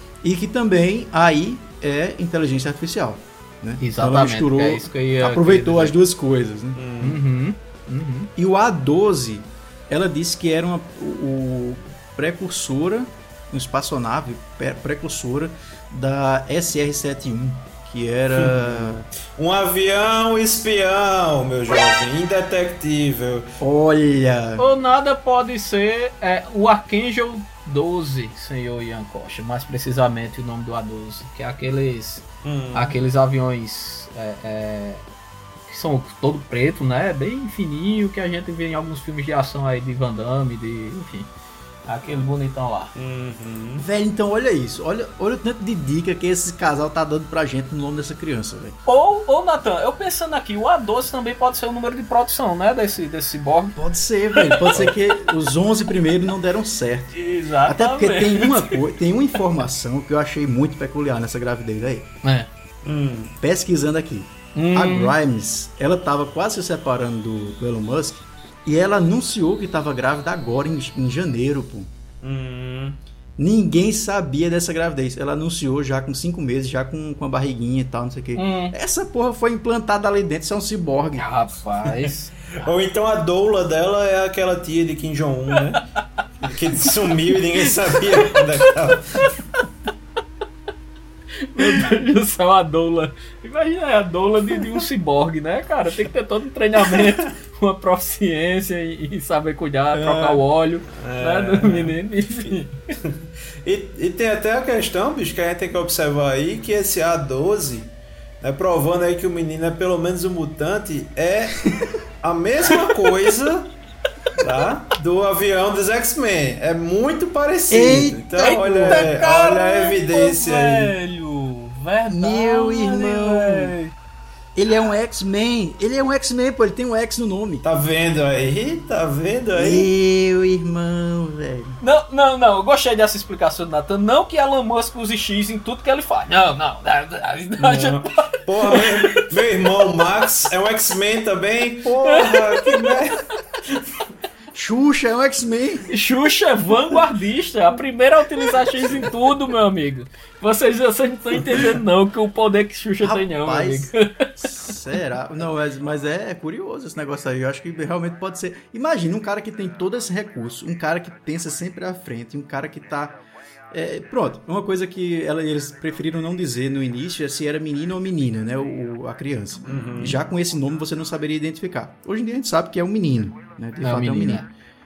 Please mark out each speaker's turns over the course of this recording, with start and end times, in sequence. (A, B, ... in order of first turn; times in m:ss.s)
0:00.2-0:06.8 A
0:03.8-0:06.0 B
0:06.7-0:07.2 C
0:07.0-0:08.3 B
0:08.4-0:19.0 A
0:18.4-0:23.5 C
0:23.6-0:24.6 A
0:24.6-0:35.0 B
0:32.4-0:33.0 C
0:35.7-0:41.3 B
0:41.8-0:42.9 B
0:42.9-0:43.8 C
0:43.8-0:48.8 A
0:48.8-0:53.8 B
0:53.7-1:02.1 A
0:54.3-0:54.8 B
0:57.1-0:58.8 B
1:02.8-1:03.3 C
1:03.4-1:11.9 A
1:04.5-1:05.1 B
1:12.2-1:13.0 C
1:13.4-1:21.2 A
1:18.4-1:18.8 B
1:21.2-1:22.3 B
1:22.5-1:25.8 C
1:26.4-1:29.4 C
1:31.5-1:42.7 B
1:39.9-1:53.7 C
1:54.4-2:00.9 C
1:57.7-1:59.0 A
1:58.4-2:03.9 B
2:02.1-2:03.7 A
2:04.5-2:07.6 A
2:07.6-2:09.9 C
2:09.5-2:11.8 A
2:11.8-2:19.2 B
2:17.6-2:23.2 C
2:22.0-2:22.9 B
2:24.5-2:25.9 A
2:25.9-2:34.0 B
2:33.0-2:43.2 A
2:43.7-2:54.5 A
2:49.6-2:50.2 C
2:53.8-2:54.5 B